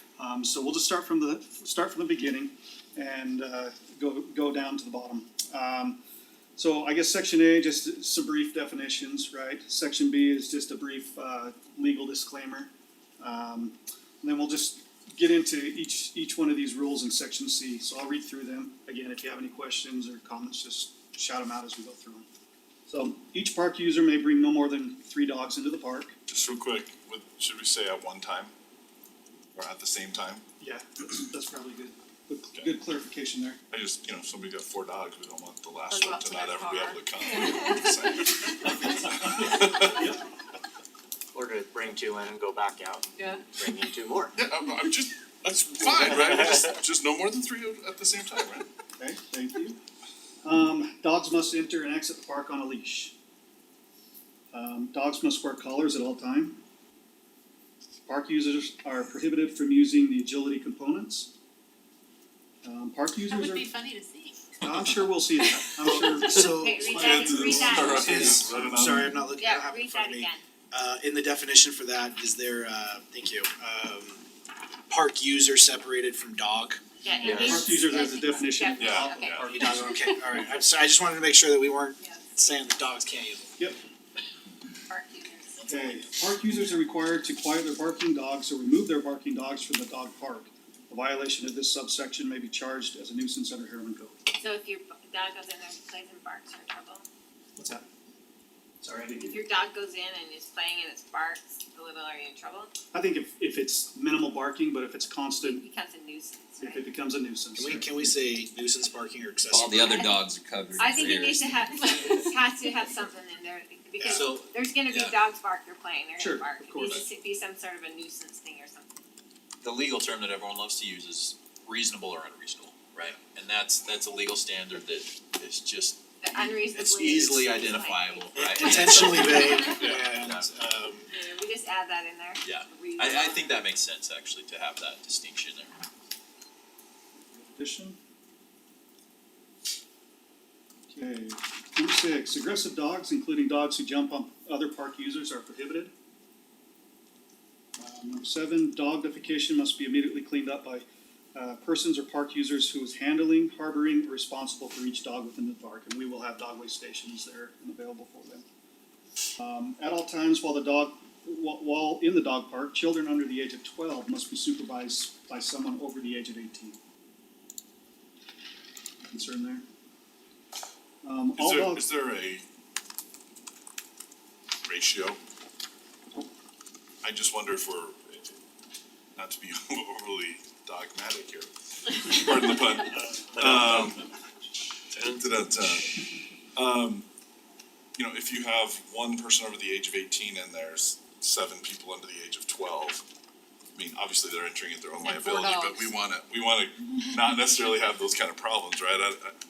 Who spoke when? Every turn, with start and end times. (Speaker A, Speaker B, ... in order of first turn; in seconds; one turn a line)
Speaker A: 0.2-6.0
Speaker A: 6.5-22.3
Speaker A: 22.9-26.1
Speaker B: 26.3-28.5
Speaker B: 29.5-30.4
Speaker A: 30.6-33.6
Speaker B: 33.7-40.1
Speaker C: 35.9-37.9
Speaker D: 41.3-44.4
Speaker C: 43.2-43.4
Speaker B: 44.4-48.7
Speaker D: 46.0-46.6
Speaker A: 49.0-49.8
Speaker A: 50.4-53.1
Speaker A: 54.5-56.6
Speaker A: 58.0-61.3
Speaker A: 62.6-63.7
Speaker C: 63.3-64.4
Speaker A: 64.6-66.6
Speaker E: 66.1-74.2
Speaker F: 66.5-68.2
Speaker B: 66.8-69.2
Speaker F: 69.3-70.4
Speaker E: 74.9-76.8
Speaker F: 77.0-79.7
Speaker A: 77.2-80.0
Speaker B: 78.8-79.5
Speaker E: 79.5-83.5
Speaker F: 82.0-82.3
Speaker F: 84.9-85.6
Speaker A: 85.7-94.1
Speaker F: 94.4-97.0
Speaker A: 97.6-97.8
Speaker A: 98.8-99.5
Speaker F: 99.2-102.7
Speaker A: 102.9-105.6
Speaker F: 105.4-106.9
Speaker A: 106.6-107.9
Speaker E: 107.5-110.0
Speaker G: 109.5-111.5
Speaker F: 109.8-110.1
Speaker F: 110.8-118.9
Speaker E: 114.0-114.4
Speaker H: 114.1-115.0
Speaker A: 116.2-117.0
Speaker H: 119.6-126.0
Speaker F: 126.2-128.2
Speaker H: 126.7-130.5
Speaker E: 126.8-127.6
Speaker E: 128.3-131.1
Speaker F: 131.1-133.6
Speaker H: 132.4-135.9
Speaker A: 137.3-138.0
Speaker A: 140.9-145.9
Speaker A: 147.8-158.4
Speaker A: 159.4-166.8
Speaker A: 169.1-169.6
Speaker A: 171.0-171.9
Speaker B: 171.3-172.4
Speaker B: 174.6-175.2
Speaker B: 177.0-178.4
Speaker B: 179.1-181.5
Speaker B: 182.0-184.0
Speaker D: 183.4-183.9
Speaker B: 185.1-185.9
Speaker B: 186.5-187.1
Speaker B: 187.9-193.1
Speaker B: 193.7-199.3
Speaker C: 195.0-195.9